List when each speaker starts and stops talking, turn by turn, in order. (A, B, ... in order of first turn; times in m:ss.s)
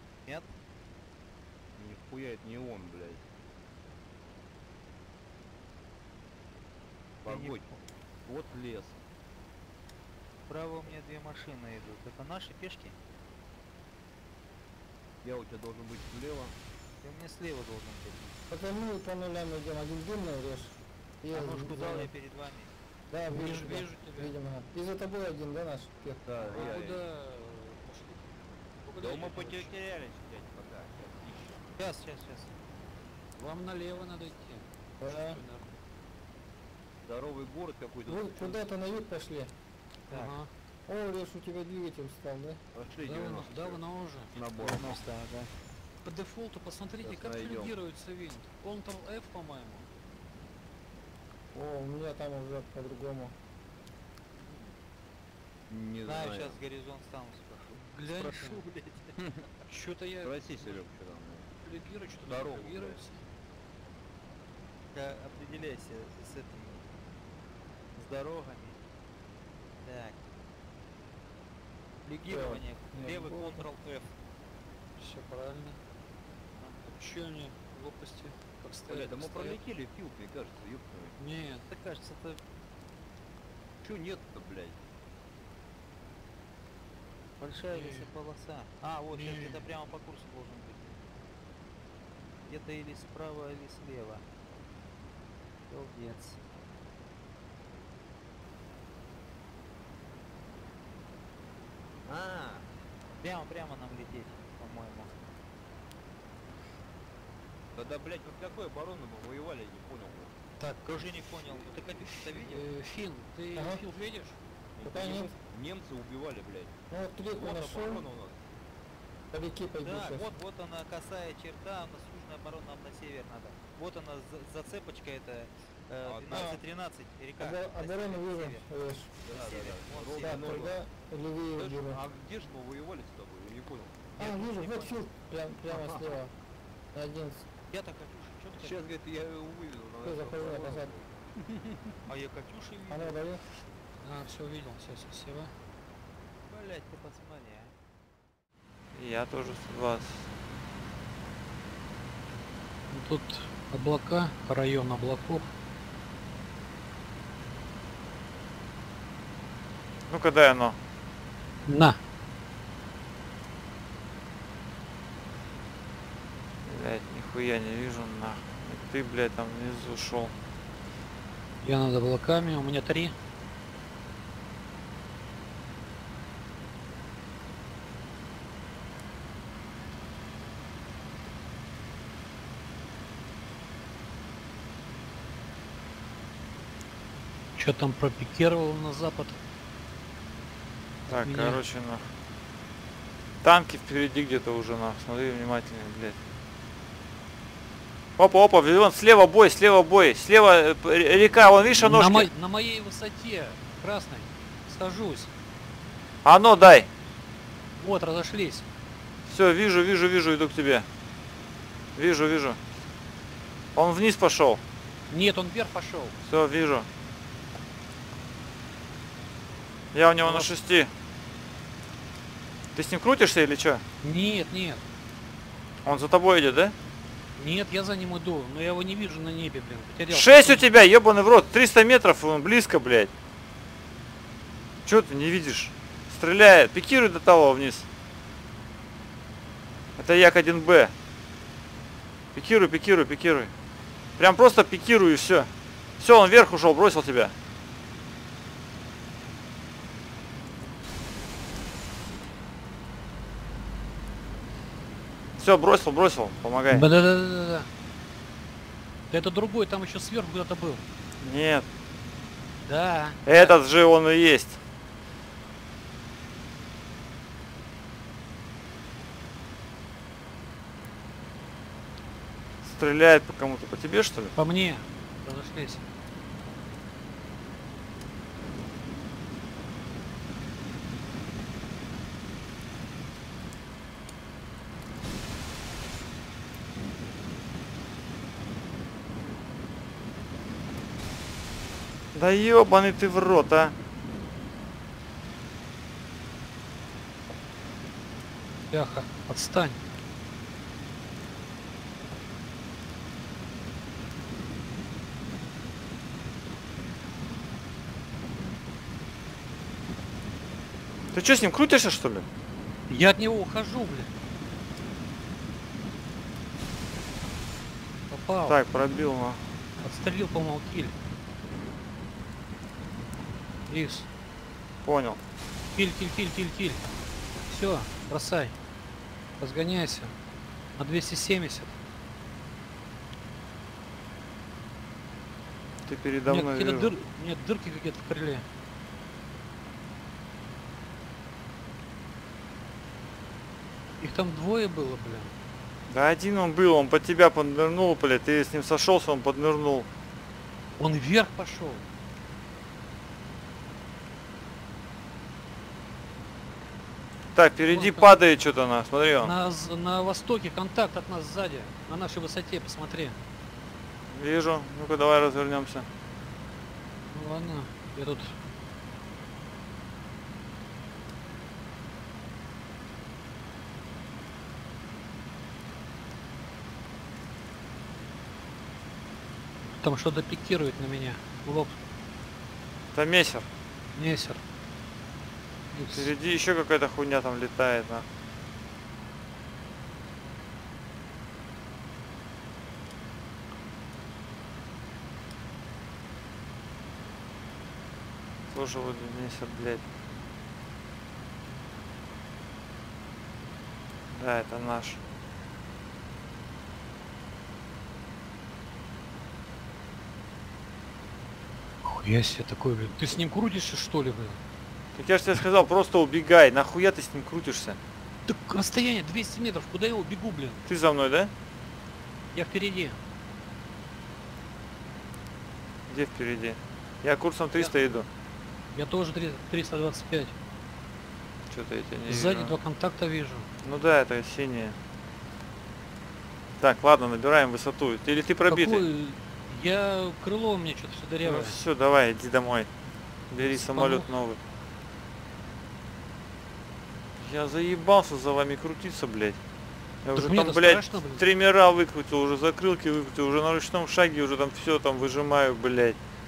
0:01.8-0:03.2 A
0:07.2-0:09.0 A
0:07.2-0:07.8 B
0:10.5-0:13.0 B
0:15.2-0:16.6 A
0:17.0-0:18.4 B
0:18.5-0:22.1 C
0:21.3-0:22.7 B
0:23.1-0:26.4 C
0:23.3-0:24.3 D
0:26.2-0:27.0 A
0:26.5-0:28.3 D
0:28.8-0:29.7 D
0:29.0-0:31.5 A
0:31.8-0:32.6 B
0:33.4-0:35.7 D
0:35.0-0:35.4 C
0:37.0-0:38.6 A
0:38.1-0:39.5 C
0:40.1-0:40.4 B
0:40.1-0:40.5 D
0:40.9-0:42.6 C
0:42.7-0:43.8 A
0:43.0-0:44.3 D
0:44.3-0:45.0 A
0:44.6-0:45.5 B
0:46.0-0:49.9 D
0:47.0-0:47.7 A
0:51.5-0:53.3 C
0:55.7-0:56.6 A
0:56.0-0:59.2 B
0:57.7-0:58.6 D
0:59.2-0:59.4 A
0:59.7-1:00.8 D
1:00.2-1:01.5 A
1:01.6-1:03.2 D
1:02.2-1:03.0 A
1:04.9-1:06.9 B
1:07.9-1:08.8 B
1:09.8-1:10.3 B
1:12.0-1:14.1 B
1:12.3-1:13.7 C
1:15.0-1:15.8 D
1:16.6-1:16.9 B
1:17.0-1:19.6 D
1:18.9-1:21.2 A
1:21.2-1:21.6 D
1:21.7-1:22.4 B
1:23.8-1:24.8 A
1:27.4-1:31.0 B
1:27.7-1:28.1 D
1:29.1-1:29.6 D
1:32.5-1:34.2 B
1:35.7-1:36.4 B
1:42.0-1:42.7 A
1:43.2-1:45.1 B
1:47.7-1:50.4 A
1:50.6-1:54.4 D
1:50.8-1:52.6 B
1:53.5-1:53.8 C
1:54.8-1:56.8 A
1:54.8-1:55.3 C
1:56.9-1:58.1 C
1:57.3-1:58.4 A
1:59.3-2:00.3 C
1:59.8-2:08.6 B
2:06.0-2:06.6 A
2:06.3-2:06.6 C
2:07.4-2:09.1 C
2:09.2-2:10.7 B
2:09.2-2:10.8 A
2:10.2-2:12.0 C
2:11.6-2:14.1 A
2:14.2-2:16.3 C
2:14.2-2:15.0 B
2:15.7-2:16.1 A
2:16.9-2:17.4 C
2:17.7-2:19.0 B
2:18.5-2:21.9 A
2:20.0-2:20.9 C
2:22.1-2:23.2 B
2:22.9-2:23.4 C
2:24.0-2:25.5 D
2:26.4-2:27.8 B
2:28.9-2:30.2 E
2:32.9-2:35.5 D
2:40.1-2:40.8 E
2:41.7-2:42.0 D
2:46.6-2:50.3 E
2:51.6-2:53.1 D
3:07.5-3:09.4 D
3:11.1-3:12.0 E
3:11.1-3:11.6 D
3:13.4-3:16.2 E
3:18.2-3:22.3 E
3:21.8-3:25.3 D
3:26.2-3:26.9 E
3:27.8-3:28.6 D
3:29.3-3:30.9 E
3:32.0-3:32.6 E
3:33.7-3:34.6 E
3:35.1-3:36.2 D
3:36.2-3:36.9 E
3:39.9-3:40.9 E
3:40.2-3:40.5 D
3:42.7-3:43.8 E
3:44.0-3:44.8 D
3:45.8-3:46.7 E
3:47.4-3:50.6 D
3:50.1-3:53.1 E
3:54.8-3:57.9 E
4:00.0-4:00.9 E
4:02.3-4:03.5 E
4:04.2-4:07.3 E
4:15.4-4:16.9 E
4:16.7-4:17.7 D
4:19.1-4:20.8 D
4:21.2-4:21.6 E
4:22.6-4:23.5 D
4:23.2-4:24.6 E
4:32.6-4:34.3 E
4:34.3-4:35.8 D
4:52.1-4:53.8 E
4:58.7-4:59.8 D
5:11.1-5:12.2 E
5:12.9-5:14.1 D
5:18.1-5:18.6 D
5:18.4-5:19.4 E
5:19.8-5:20.9 D
5:23.7-5:24.1 D
5:24.8-5:25.2 E
5:25.7-5:26.8 D
5:27.5-5:28.5 D
5:29.4-5:30.1 D
5:30.8-5:31.7 D
5:35.8-5:36.9 E
5:36.3-5:38.4 D
5:44.0-5:45.3 D
5:45.9-5:49.9 E
5:50.8-5:51.8 D
5:57.3-5:59.3 E
5:57.7-5:58.2 D
5:59.2-6:03.2 D
6:04.1-6:05.9 E
6:07.1-6:08.3 D
6:19.8-6:21.8 D
6:22.9-6:23.5 E
6:23.9-6:24.4 D
6:25.7-6:26.1 D
6:25.9-6:28.0 E
6:38.5-6:39.9 E
6:44.1-6:45.0 E
6:51.8-6:54.4 D
6:55.0-6:57.8 E
6:58.3-7:00.6 D
7:00.6-7:01.3 E
7:02.3-7:03.0 D
7:05.9-7:08.1 E
7:08.7-7:10.3 D
7:11.5-7:12.6 E
7:12.0-7:13.5 D
7:13.6-7:14.8 E
7:16.6-7:18.8 E
7:18.5-7:21.6 D
7:21.2-7:22.7 E
7:23.3-7:24.4 E
7:23.4-7:24.1 D
7:27.2-7:29.4 E
7:30.0-7:36.0 E
7:30.1-7:31.2 D